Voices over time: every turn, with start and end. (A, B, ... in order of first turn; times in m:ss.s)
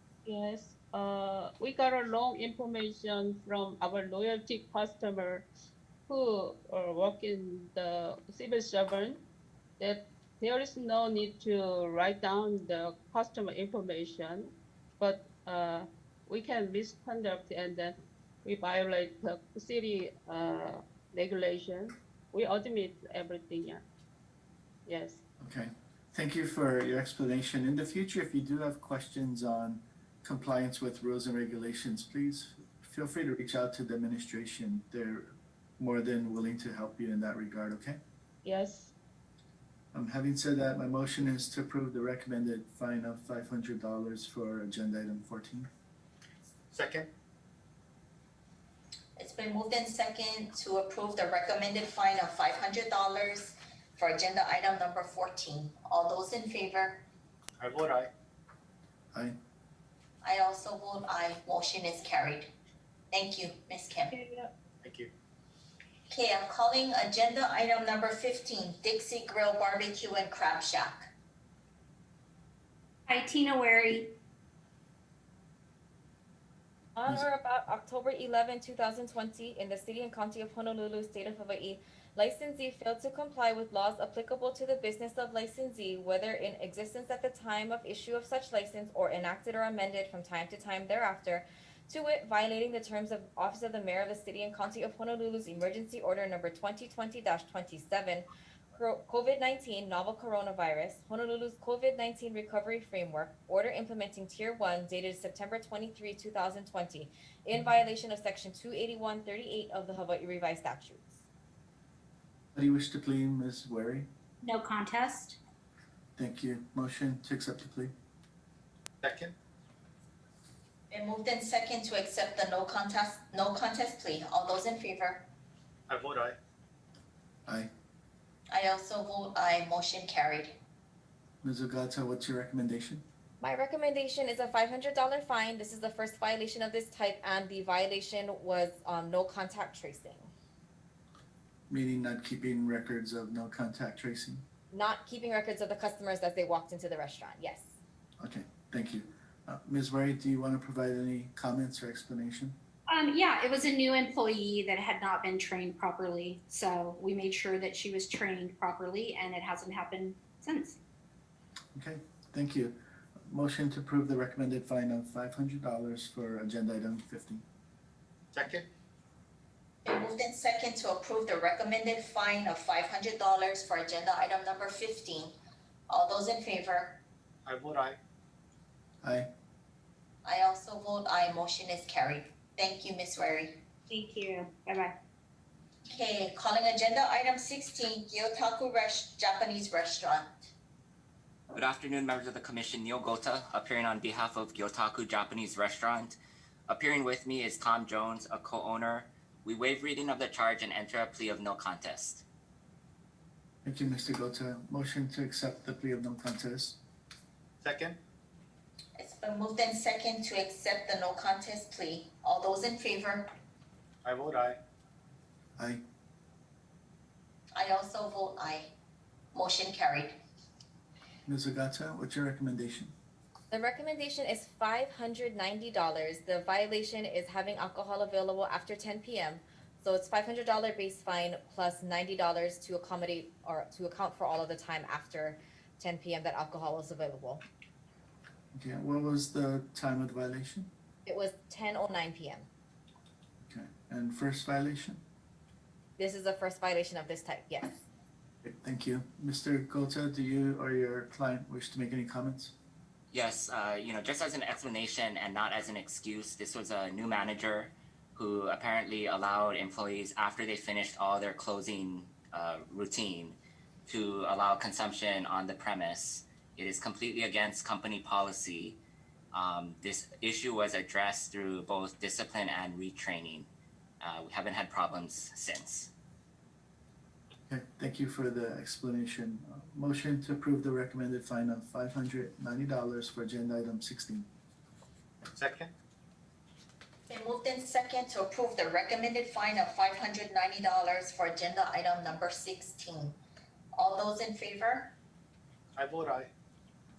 0:00.2-0:05.4 A
0:06.1-0:09.2 A
0:09.8-0:23.8 A
0:24.9-0:25.2 A
0:25.4-0:38.0 B
0:38.4-0:38.9 A
0:39.9-0:45.7 B
0:46.7-0:47.1 C
0:49.2-0:57.0 D
0:57.6-0:58.1 C
1:00.2-1:02.5 D
1:03.1-1:04.1 D
1:04.1-1:04.5 E
1:04.8-1:05.1 C
1:06.1-1:11.1 D
1:13.1-1:14.1 E
1:17.0-1:51.2 F
1:52.6-1:54.1 B
1:54.4-1:55.4 E
1:56.2-1:57.9 B
1:59.0-1:59.4 C
2:00.9-2:05.3 D
2:05.9-2:06.4 C
2:08.5-2:10.6 D
2:11.4-2:13.0 B
2:13.4-2:20.3 F
2:21.7-2:24.4 B
2:24.7-2:27.7 F
2:28.2-2:32.6 B
2:32.9-2:40.8 E
2:41.8-2:47.4 B
2:48.3-2:48.7 C
2:49.8-2:55.4 D
2:55.9-2:57.0 D
2:57.5-2:58.0 C
2:59.0-2:59.3 B
3:00.2-3:03.6 D
3:03.9-3:05.0 E
3:05.9-3:10.3 D
3:11.5-3:22.2 G
3:23.6-3:26.8 B
3:27.6-3:28.0 C
3:29.0-3:33.3 D
3:34.0-3:34.6 C
3:35.6-3:35.8 B
3:37.5-3:38.7 D
3:39.3-3:40.2 D
3:41.3-3:42.9 B
3:43.5-3:57.4 F
3:58.5-4:00.7 B
4:01.1-4:02.5 F
4:03.4-4:05.0 B
4:06.0-4:07.8 F
4:08.4-4:12.5 B
4:13.1-4:23.4 G
4:23.9-4:28.8 G
4:29.3-4:33.5 G
4:34.0-4:35.9 G
4:37.5-4:44.3 B
4:45.4-4:45.7 C
4:47.1-4:53.2 D
4:53.8-4:55.0 D
4:55.8-4:56.3 C